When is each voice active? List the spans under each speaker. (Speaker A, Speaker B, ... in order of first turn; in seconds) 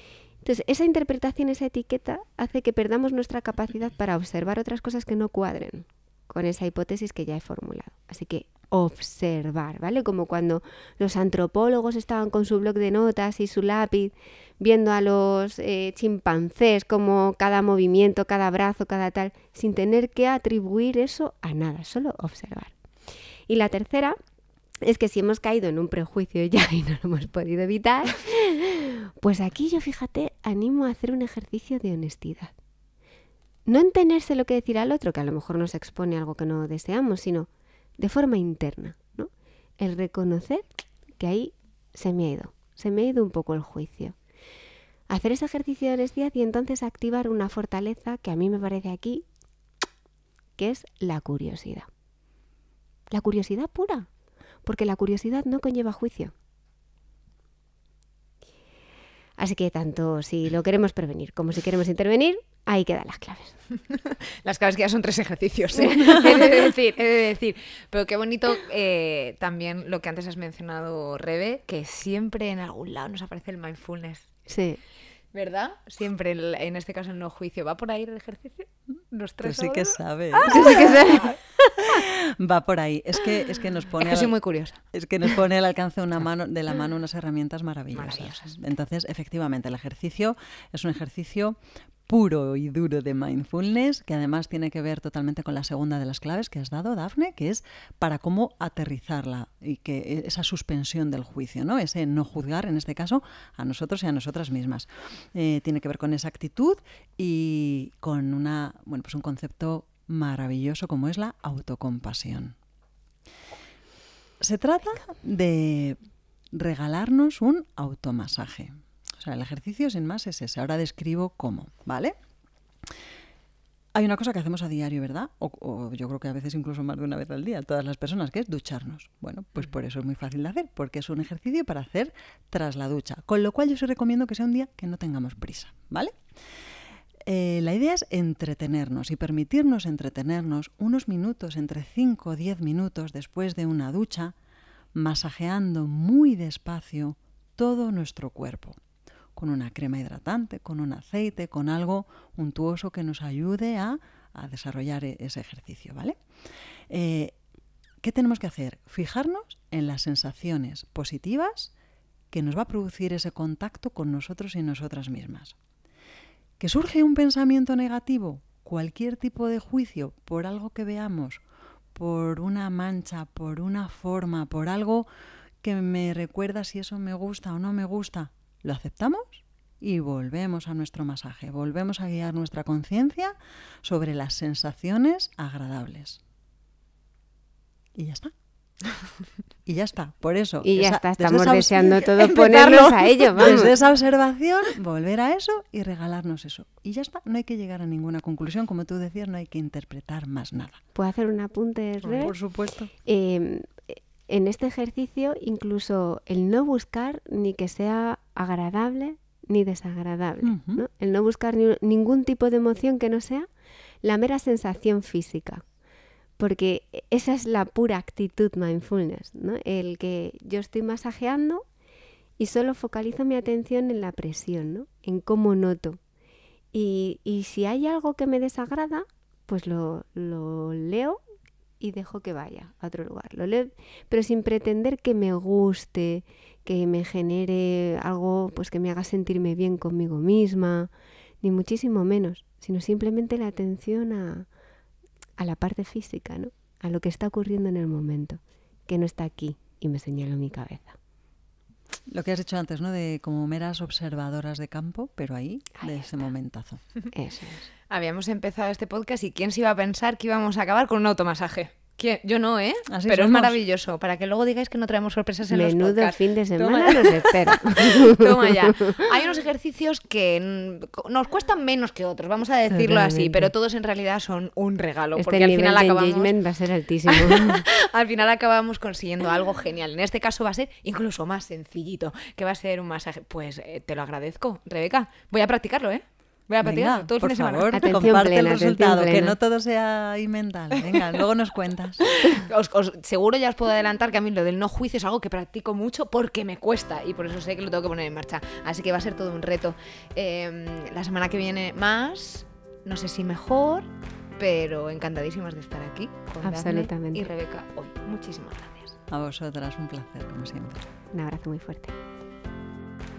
Speaker A: 0.4-22.8, 23.5-24.2, 24.8-32.5, 33.7-40.6, 41.2-44.1, 45.1-49.2, 50.6-51.9, 53.1-54.1, 54.7-56.3, 59.4-63.6, 65.8-66.4, 74.5-74.8, 80.5-81.4, 190.6-193.7, 200.9-202.3, 203.1-213.5, 214.0-215.6, 216.4-221.6, 222.4-226.0, 226.7-231.2, 231.8-240.9, 241.4-244.5, 245.4-251.0, 255.8-256.1, 257.1-257.7, 265.5-269.0, 275.2-277.6, 287.7-289.4, 306.4-307.3, 311.1-311.9
Speaker B: 63.9-74.3, 75.3-81.4, 84.0-84.8, 87.9-88.5, 192.3-193.7, 257.9-276.4, 277.1-288.0, 292.1-309.0
Speaker C: 79.4-81.0, 82.0-84.3, 84.9-91.6, 92.1-112.5, 114.4-116.0, 116.5-122.2, 124.0-136.1, 137.3-144.3, 145.0-148.8, 149.4-156.2, 156.9-157.3, 158.0-161.7, 162.3-165.6, 166.6-171.4, 171.9-175.1, 175.6-186.2, 188.0-188.3, 189.7-192.7, 193.4-200.8, 202.0-202.9, 210.4-210.8, 252.1-256.8, 262.9-263.6, 272.8-273.5, 286.6-292.0, 309.1-310.8